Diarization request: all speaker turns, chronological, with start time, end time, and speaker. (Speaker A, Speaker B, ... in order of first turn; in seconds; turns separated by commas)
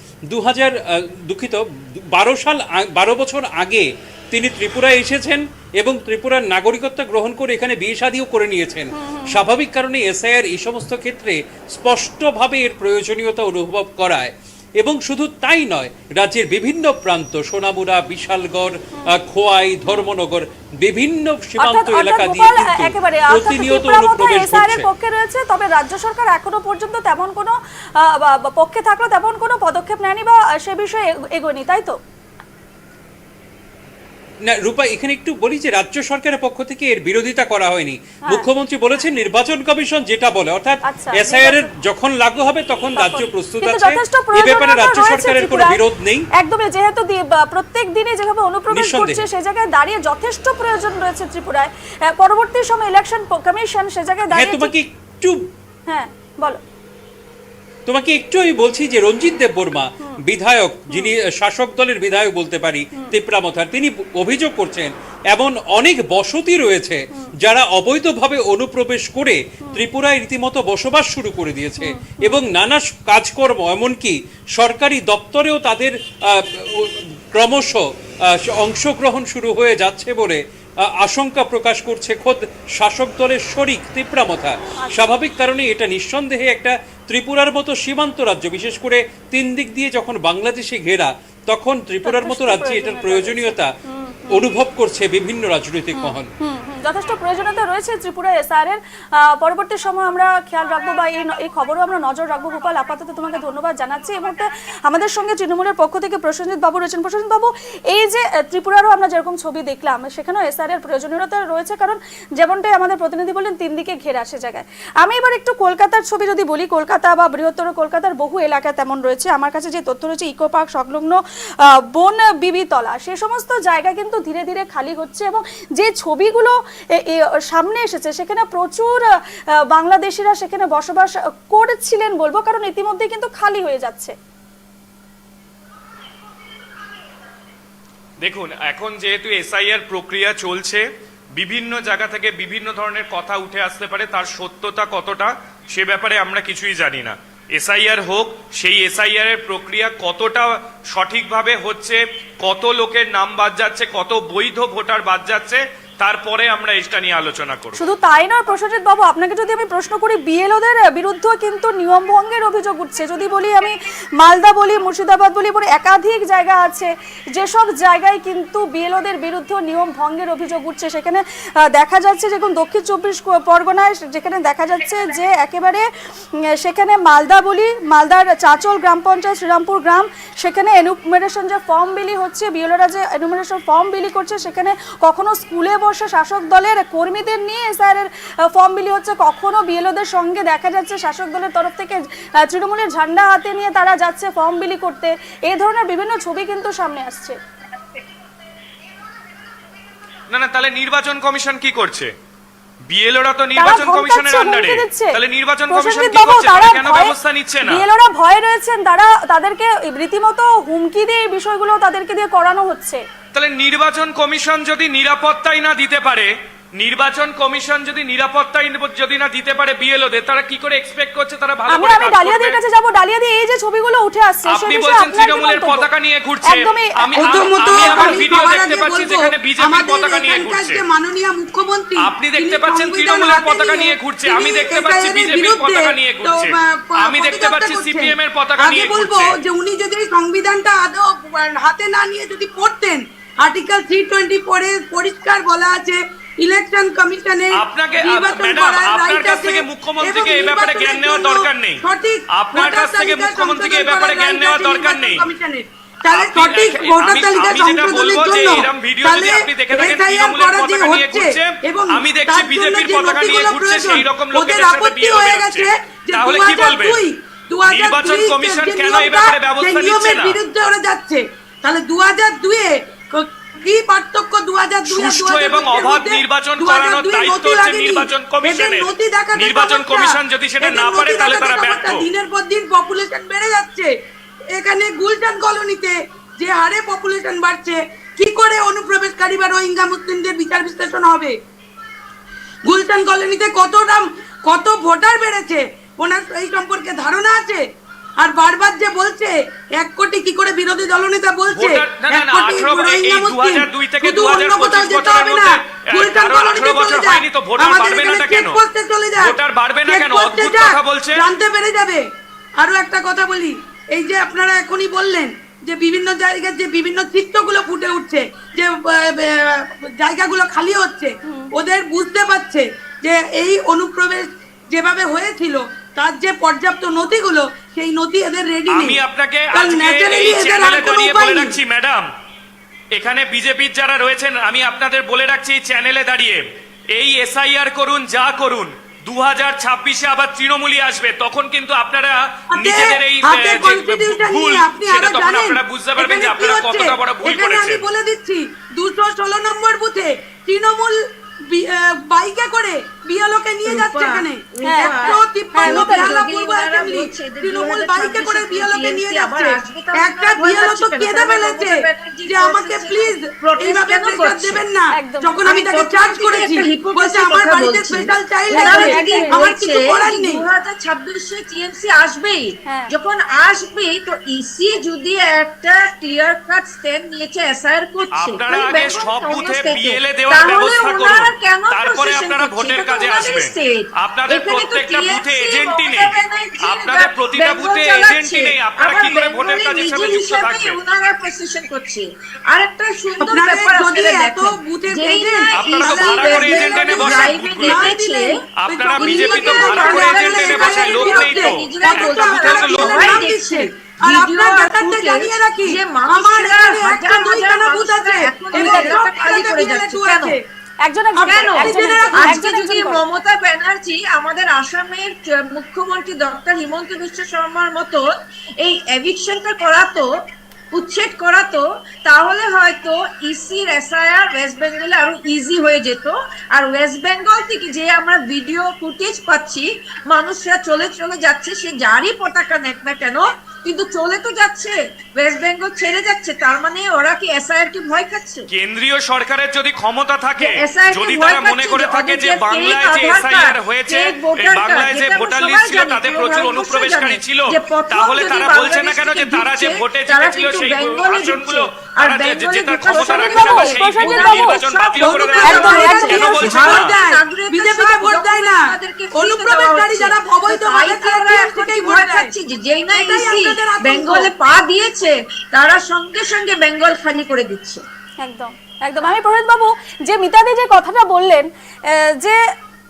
Speaker A: 0.3-24.9, Speaker B: 8.9-9.5, Speaker B: 21.6-32.0, Speaker A: 34.5-46.3, Speaker B: 40.8-41.7, Speaker B: 43.0-45.8, Speaker B: 46.4-54.7, Speaker A: 48.7-49.2, Speaker A: 54.3-55.5, Speaker B: 55.9-56.6, Speaker A: 57.9-93.7, Speaker B: 60.9-61.1, Speaker B: 71.8-72.4, Speaker B: 84.8-85.1, Speaker B: 92.0-94.5, Speaker A: 94.3-96.3, Speaker B: 95.9-129.0, Speaker B: 129.7-134.1, Speaker C: 138.2-140.8, Speaker C: 141.3-157.8, Speaker B: 157.8-175.8, Speaker B: 176.5-197.4, Speaker C: 200.3-202.1, Speaker C: 202.9-207.8, Speaker B: 203.6-205.2, Speaker B: 205.7-207.1, Speaker B: 207.6-213.0, Speaker C: 213.3-222.6, Speaker B: 221.7-225.9, Speaker C: 224.5-230.8, Speaker B: 226.4-228.2, Speaker D: 227.1-283.9, Speaker C: 232.0-239.3, Speaker C: 247.5-255.2, Speaker C: 256.1-267.0, Speaker C: 267.7-270.4, Speaker C: 274.9-282.0, Speaker D: 284.5-291.4, Speaker D: 292.6-297.6, Speaker D: 298.2-309.4, Speaker C: 301.5-308.6, Speaker C: 309.2-311.2, Speaker D: 309.9-312.0, Speaker D: 312.6-329.0, Speaker B: 321.2-321.5, Speaker C: 328.7-332.1, Speaker D: 329.5-331.5, Speaker C: 332.9-336.4, Speaker C: 336.9-347.9, Speaker D: 342.6-351.0, Speaker D: 351.5-370.5, Speaker E: 353.7-364.6, Speaker B: 354.6-356.1, Speaker B: 364.9-365.4, Speaker E: 365.4-398.4, Speaker B: 368.5-369.5, Speaker B: 372.6-372.9, Speaker C: 378.1-390.8, Speaker D: 393.2-410.4, Speaker C: 395.5-397.9, Speaker C: 398.6-403.3, Speaker E: 398.9-410.4, Speaker B: 408.5-408.9, Speaker B: 410.8-413.0, Speaker D: 411.1-412.5, Speaker E: 411.2-418.1, Speaker E: 418.6-420.1, Speaker E: 420.7-438.5, Speaker C: 438.5-456.9, Speaker E: 440.4-467.8, Speaker B: 452.9-454.6, Speaker D: 455.0-462.3, Speaker B: 455.5-456.2, Speaker D: 462.9-464.3, Speaker B: 468.2-472.4